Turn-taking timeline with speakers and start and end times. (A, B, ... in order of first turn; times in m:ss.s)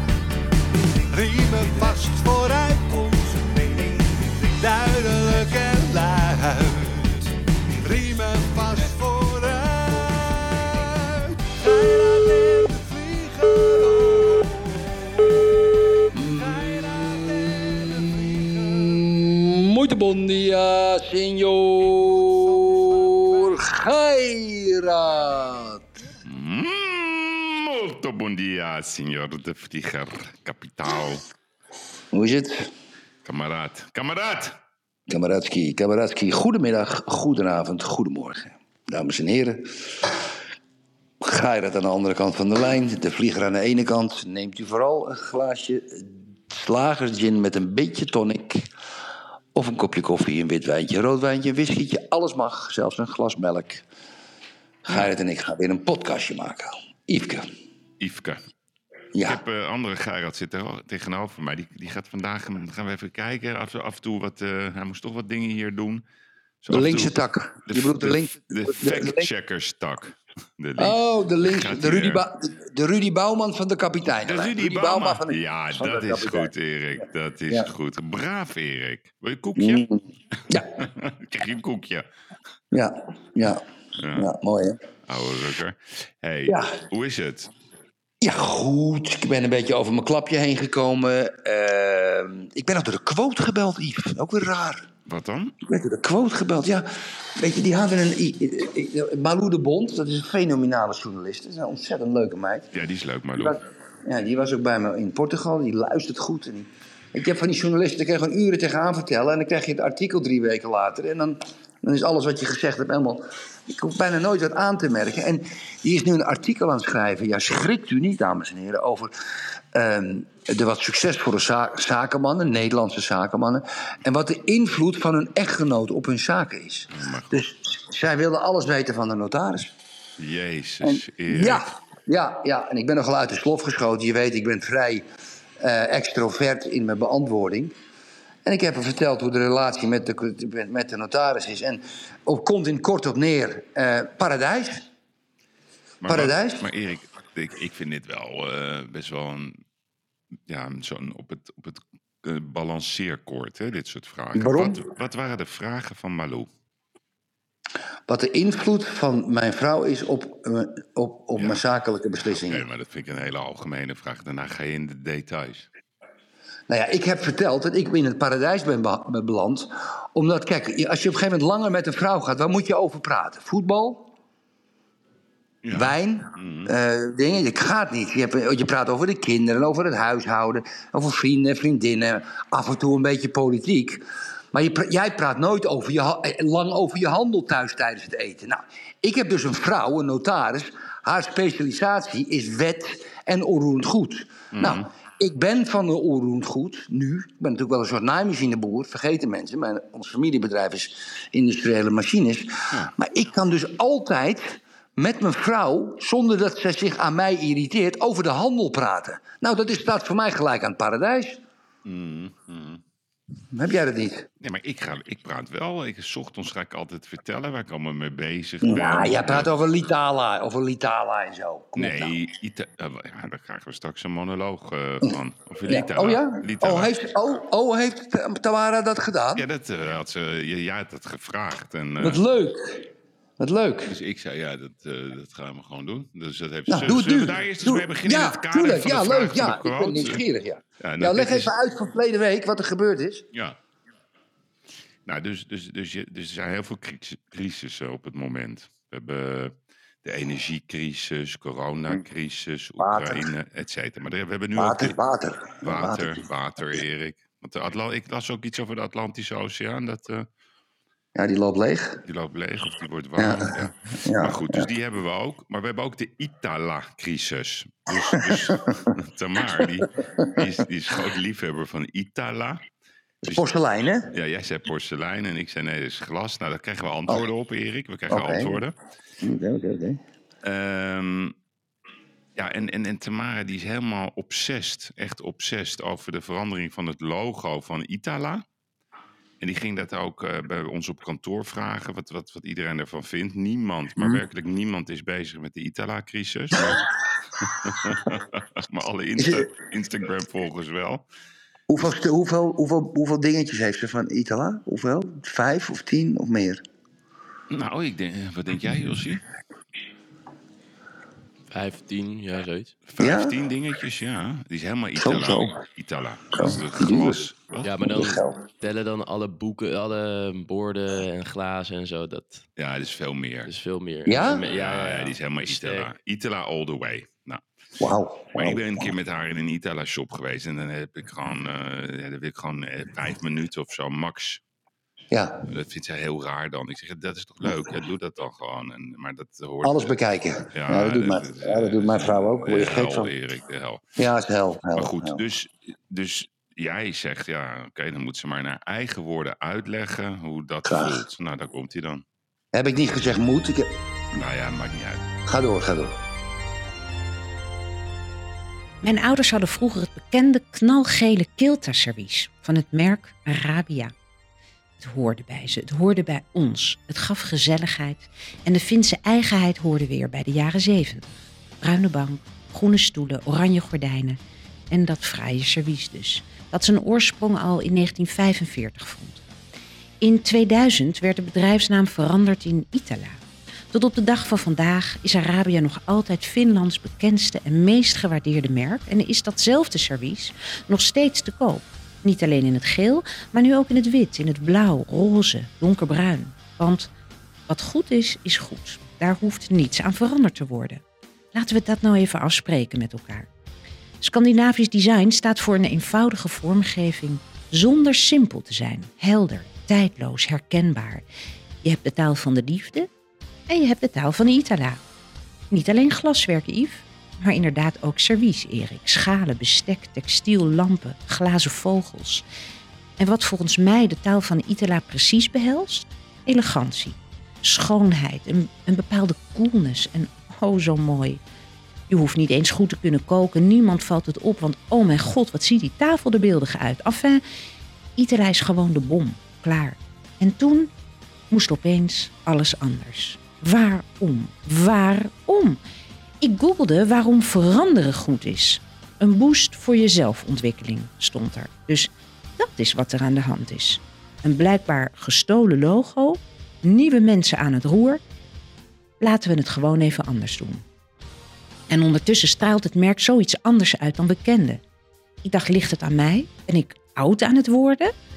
0:01.0-0:19.3 A
0:16.1-0:25.8 B
0:21.8-0:23.9 A
0:25.0-0:25.8 A
0:26.2-0:31.2 C
0:32.1-0:32.7 B
0:33.2-0:34.6 C
0:35.1-0:40.2 B
0:41.2-0:48.7 B
0:49.6-0:53.8 B
0:54.8-0:57.5 B
0:58.0-0:58.4 C
0:59.1-0:59.4 B
0:59.2-1:06.0 C
1:06.6-1:12.2 C
1:06.7-1:09.3 B
1:10.8-1:17.7 B
1:14.2-1:19.9 C
1:19.6-1:20.8 B
1:20.5-1:22.1 C
1:22.7-1:23.6 B
1:24.0-1:24.3 C
1:24.2-1:24.8 B
1:25.1-1:27.5 C
1:26.5-1:26.8 B
1:28.2-1:34.9 B
1:35.1-1:35.6 C
1:35.7-1:42.7 B
1:42.7-1:43.6 C
1:43.4-1:59.1 B
1:59.7-2:09.7 B
2:06.9-2:07.4 C
2:10.2-2:11.6 C
2:10.8-2:15.0 B
2:15.6-2:17.7 B
2:18.4-2:24.9 B
2:26.0-2:29.6 C
2:26.1-2:26.7 B
2:30.5-2:36.5 C
2:34.4-2:34.9 B
2:38.1-2:42.6 B
2:42.2-2:45.7 C
2:46.7-2:54.1 B
2:55.6-2:56.7 C
2:55.7-3:31.4 B
3:14.5-3:14.9 C
3:31.8-3:32.8 C
3:33.5-3:34.3 B
3:34.4-3:39.5 C
3:38.6-3:42.1 B
3:41.8-3:46.9 C
3:45.0-3:49.4 B
3:49.4-3:52.2 C
3:52.0-3:54.0 B
3:53.9-4:00.2 C
3:56.7-4:03.3 B
4:00.8-4:01.5 C
4:03.3-4:03.6 C
4:05.1-4:15.0 C
4:12.8-4:13.3 B
4:14.6-4:16.2 B
4:15.6-4:20.3 C
4:21.2-4:22.0 B
4:22.1-4:32.6 C
4:23.2-4:24.7 B
4:28.1-4:28.9 B
4:29.8-4:30.4 B
4:33.3-4:34.1 B
4:34.1-4:38.8 C
4:38.1-4:38.6 B
4:39.2-4:40.0 B
4:40.4-4:41.4 C
4:42.4-4:48.4 C
4:49.4-4:56.8 C
4:56.5-4:58.1 B
4:57.6-5:01.0 C
4:59.2-4:59.5 B
5:01.7-5:06.6 B
5:07.5-5:09.2 C
5:11.5-5:12.8 D
5:12.9-5:17.8 C
5:13.0-5:13.4 B
5:15.0-5:15.6 B
5:16.3-5:17.2 B
5:17.6-5:22.4 D
5:17.8-5:18.5 B
5:22.6-5:23.5 C
5:23.5-5:25.9 D
5:24.1-5:24.4 B
5:24.4-5:27.4 C
5:27.8-5:28.9 B
5:28.4-5:34.4 C
5:35.1-5:35.5 B
5:35.5-5:39.9 C
5:39.6-5:43.1 B
5:40.5-5:43.8 C
5:44.0-5:45.2 B
5:44.8-5:52.0 C
5:50.7-5:51.0 B
5:52.5-5:53.8 B
5:54.1-5:55.0 C
5:55.3-5:56.0 B
5:58.8-6:03.9 E
6:04.8-6:11.1 E
6:11.6-6:14.2 E
6:14.7-6:19.2 E
6:20.0-6:23.2 E
6:23.7-6:36.9 E
6:37.5-6:40.8 E
6:41.3-6:43.3 E
6:44.0-6:51.0 E
6:51.6-6:52.9 E
6:53.5-6:54.8 E
6:55.5-7:02.2 E
7:03.0-7:11.2 E
7:11.9-7:17.2 E
7:18.0-7:20.7 E
7:21.3-7:25.6 E
7:26.2-7:38.0 E
7:39.0-7:40.6 E
7:41.7-7:44.6 E
7:45.2-7:47.9 E